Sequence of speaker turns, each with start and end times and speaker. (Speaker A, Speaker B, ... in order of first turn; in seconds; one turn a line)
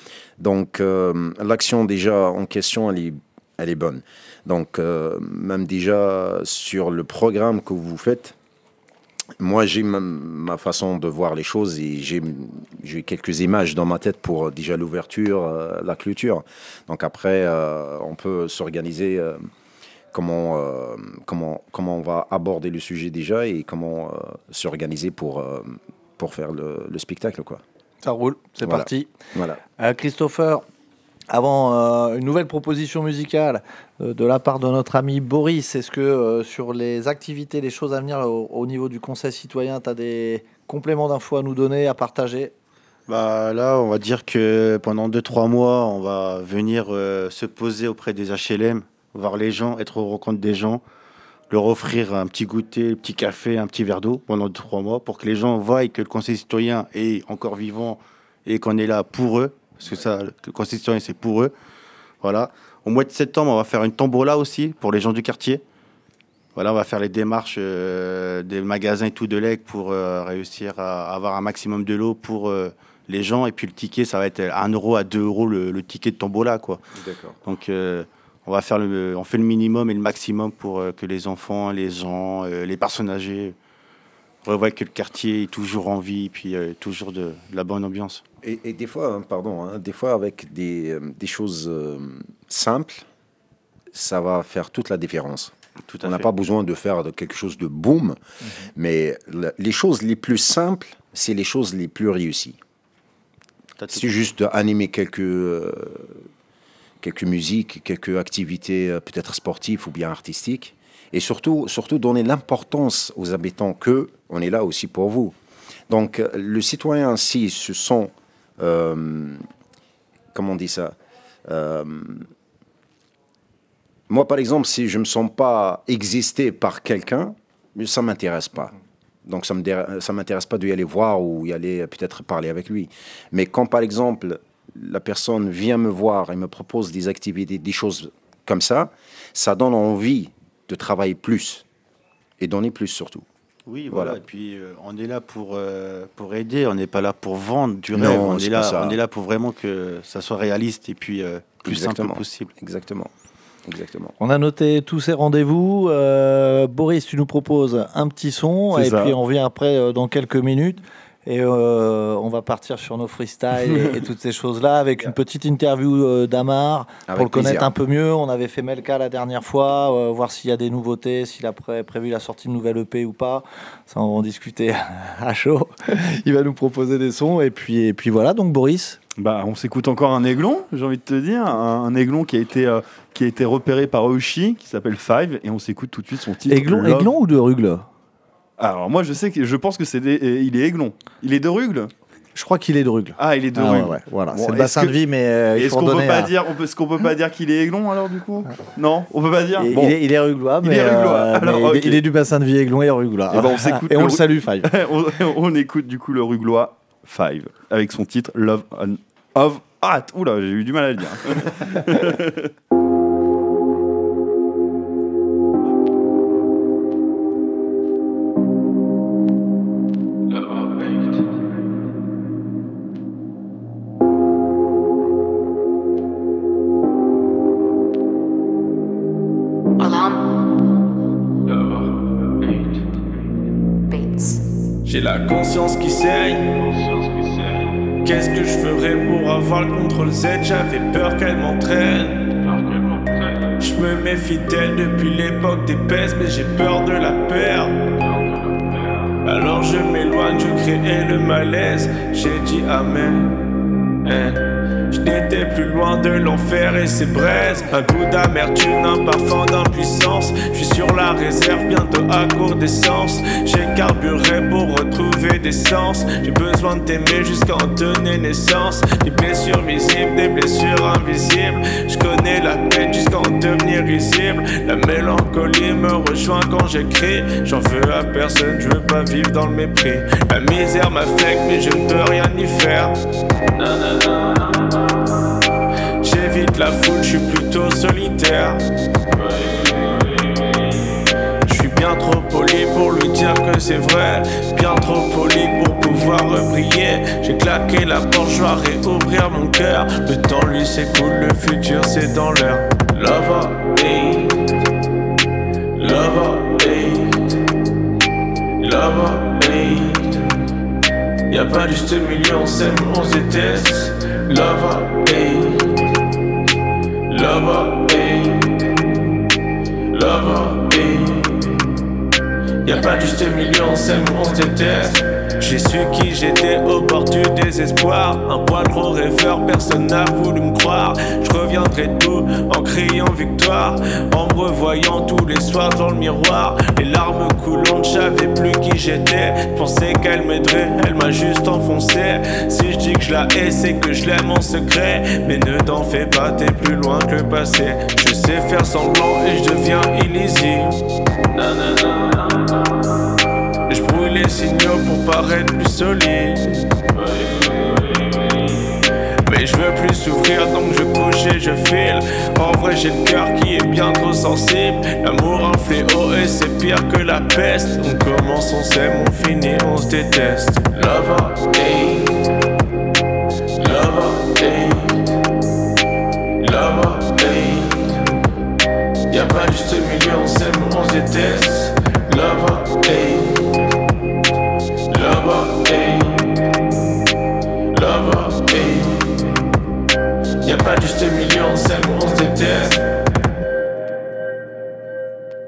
Speaker A: 0.4-8.3
Speaker A: 9.4-19.4
Speaker A: 20.1-27.6
Speaker B: 28.0-29.1
Speaker A: 28.6-29.6
Speaker B: 29.8-30.6
Speaker B: 31.3-42.5
Speaker C: 43.1-50.8
Speaker C: 51.5-61.5
Speaker C: 62.2-65.6
Speaker C: 66.5-76.8
Speaker A: 77.0-77.4
Speaker C: 77.5-83.6
Speaker C: 84.5-88.2
Speaker A: 88.4-93.0
Speaker A: 93.9-95.5
Speaker C: 95.9-96.3
Speaker A: 96.0-98.2
Speaker A: 98.8-102.6
Speaker C: 103.8-104.1
Speaker A: 103.9-106.1
Speaker A: 107.0-115.3
Speaker A: 115.9-119.4
Speaker A: 120.3-121.0
Speaker A: 121.5-122.3
Speaker A: 124.1-128.7
Speaker A: 129.3-141.6
Speaker A: 142.4-143.2
Speaker C: 143.7-152.5
Speaker A: 143.9-144.2
Speaker A: 147.9-149.0
Speaker A: 151.7-153.1
Speaker A: 153.7-154.1
Speaker B: 154.2-179.0
Speaker D: 158.7-159.2
Speaker A: 167.1-167.7
Speaker D: 179.2-187.1
Speaker B: 186.5-187.9
Speaker D: 188.6-191.9
Speaker B: 192.3-196.3
Speaker D: 193.2-195.0
Speaker D: 195.5-200.0
Speaker B: 199.6-204.7
Speaker D: 200.6-202.0
Speaker D: 203.3-212.5
Speaker E: 231.5-232.8
Speaker E: 234.8-247.8
Speaker E: 249.2-253.3
Speaker E: 254.0-282.9
Speaker E: 283.6-285.0
Speaker E: 286.0-288.6
Speaker E: 289.1-304.5
Speaker E: 305.8-307.4
Speaker E: 308.6-310.4
Speaker E: 311.3-315.8
Speaker E: 317.1-318.8
Speaker E: 319.9-321.7
Speaker E: 322.6-350.8
Speaker E: 351.3-352.7
Speaker E: 353.7-372.2
Speaker E: 373.6-375.1
Speaker E: 376.4-378.1
Speaker E: 379.1-383.6
Speaker E: 384.9-386.5
Speaker E: 387.7-389.3
Speaker E: 390.4-392.8